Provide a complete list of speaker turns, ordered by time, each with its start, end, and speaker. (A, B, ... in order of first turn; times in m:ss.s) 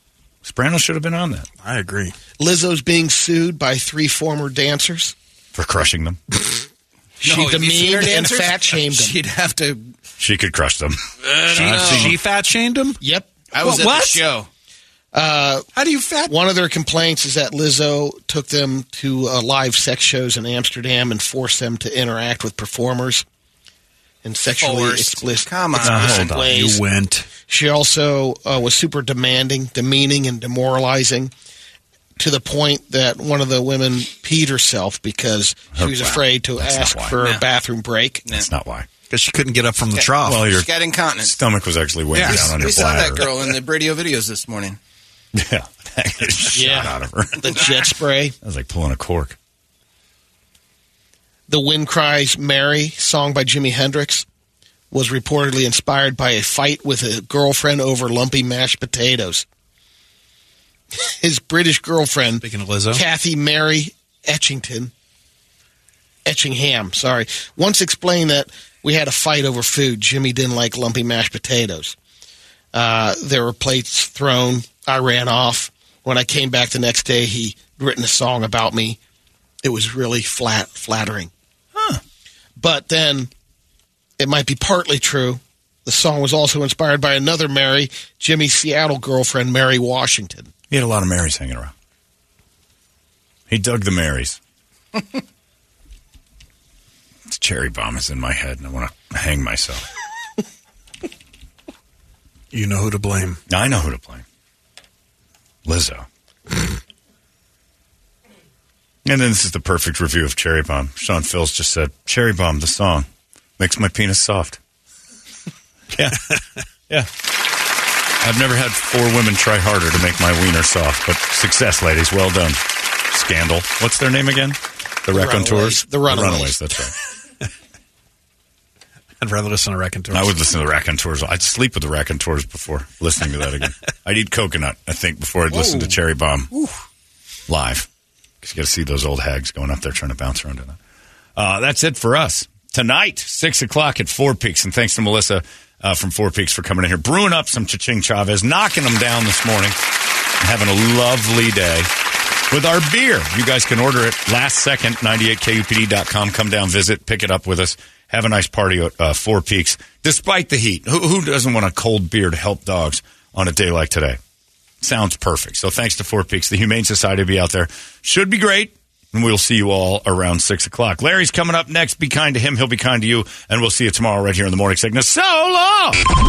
0:00.4-0:01.5 A
0:01.6-0:02.2 B
0:02.4-0:05.1 C
0:05.6-0:06.2 A
0:07.2-0:09.2 C
0:07.2-0:09.9 D
0:10.2-0:12.2 A
0:11.5-0:13.0 B
0:11.6-0:12.1 D
0:13.0-0:13.4 C
0:13.5-0:14.5 D
0:13.6-0:14.2 B
0:15.1-0:15.7 C
0:15.7-0:16.4 B
0:16.3-0:23.2 C
0:24.2-0:26.8 C
0:24.6-0:26.5 D
0:25.8-0:26.5 A
0:26.4-0:27.3 B
0:27.4-0:31.3 C
0:32.2-0:38.2 C
0:35.8-0:37.2 A
0:37.2-0:37.4 D
0:38.3-0:38.9 A
0:39.1-0:40.6 B
0:39.9-0:41.4 D
0:40.2-0:43.4 A
0:42.1-0:42.6 B
0:42.2-0:44.8 D
0:45.3-0:47.6 A
0:46.5-0:48.4 C
0:48.4-0:49.4 A
0:51.5-0:54.3 C
0:54.9-0:59.4 C
1:00.9-1:04.9 C
1:02.4-1:03.0 B
1:06.2-1:12.0 C
1:12.7-1:19.0 C
1:19.6-1:21.3 C
1:21.8-1:22.0 A
1:22.6-1:23.3 C
1:24.2-1:30.5 C
1:30.7-1:31.7 A
1:33.5-1:34.4 A
1:37.3-1:39.8 A
1:42.5-1:43.4 B
1:43.5-1:44.2 A
1:45.7-1:46.1 A
1:49.0-1:53.1 A
1:53.6-1:54.6 A
1:55.9-1:56.3 A
1:58.2-2:02.6 A
2:03.1-2:07.0 A
2:05.1-2:06.6 C
2:09.2-2:10.4 B
2:10.1-2:16.5 A
2:15.5-2:15.9 B
2:17.5-2:17.9 A
2:18.4-2:20.8 A
2:21.4-2:29.8 A
2:30.4-2:31.9 A
2:32.5-2:44.2 A
2:44.8-2:56.0 A